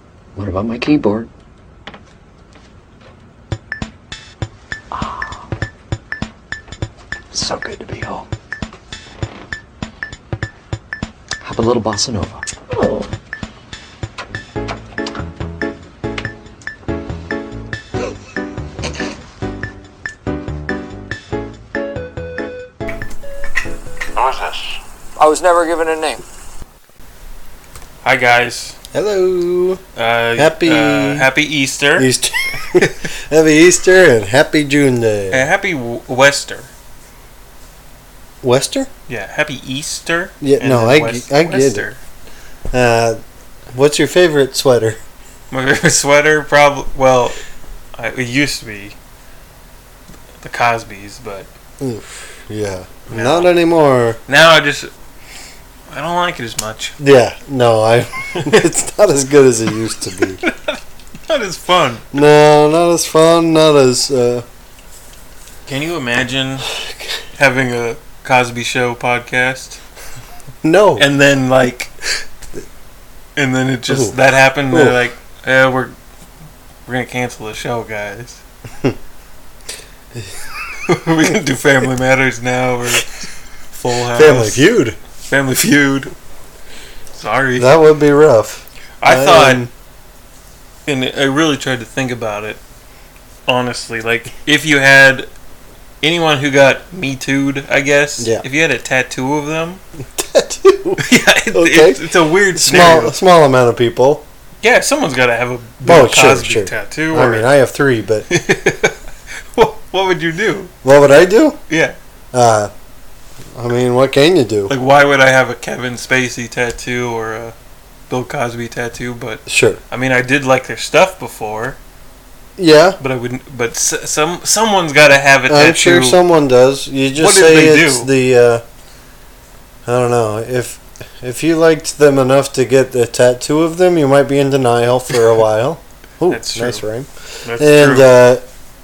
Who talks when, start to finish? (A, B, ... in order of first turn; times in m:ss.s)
0:00.4-0:01.3 A
0:04.9-0:05.4 A
0:07.3-0:08.3 A
0:11.4-0:12.4 A
0:24.2-0:24.6 A
0:25.2-0:26.2 A
0:28.0-0:28.8 B
0:28.9-0:29.8 C
0:30.0-0:32.1 B
0:30.4-0:31.3 C
0:32.0-0:35.5 C
0:35.3-0:36.7 B
0:38.4-0:38.9 C
0:39.1-0:42.0 B
0:40.4-0:41.9 C
0:42.7-0:43.2 C
0:43.7-0:45.0 C
0:45.5-0:47.4 B
0:48.0-0:49.0 B
0:50.4-0:51.5 B
0:51.8-0:54.2 C
0:53.1-0:53.5 B
0:54.3-0:54.9 B
0:55.9-0:57.0 B
0:57.0-1:00.4 C
0:58.3-0:58.6 B
1:00.4-1:02.0 B
1:02.1-1:04.4 C
1:05.7-1:06.7 B
1:07.4-1:09.8 B
1:10.6-1:11.1 C
1:11.0-1:11.9 B
1:13.4-1:16.0 B
1:13.9-1:14.2 C
1:14.7-1:15.0 C
1:16.9-1:18.4 B
1:20.9-1:24.6 B
1:24.2-1:25.0 C
1:25.2-1:26.1 B
1:27.2-1:27.7 B
1:27.6-1:29.7 C
1:29.0-1:29.7 B
1:30.9-1:32.6 B
1:33.5-1:35.3 B
1:36.0-1:39.8 B
1:38.2-1:38.4 C
1:40.2-1:44.2 C
1:41.0-1:43.2 B
1:44.6-1:47.5 B
1:45.8-1:48.3 C
1:48.3-1:50.7 B
1:50.8-1:51.6 C
1:51.7-1:52.0 B
1:52.3-1:52.7 C
1:53.6-1:54.7 C
1:54.7-1:57.6 B
1:58.1-2:01.8 B
1:59.5-1:59.8 C
2:02.6-2:03.0 C
2:03.0-2:06.2 B
2:05.5-2:08.6 C
2:07.2-2:08.1 B
2:09.9-2:18.4 C
2:16.3-2:16.8 B
2:17.4-2:18.2 B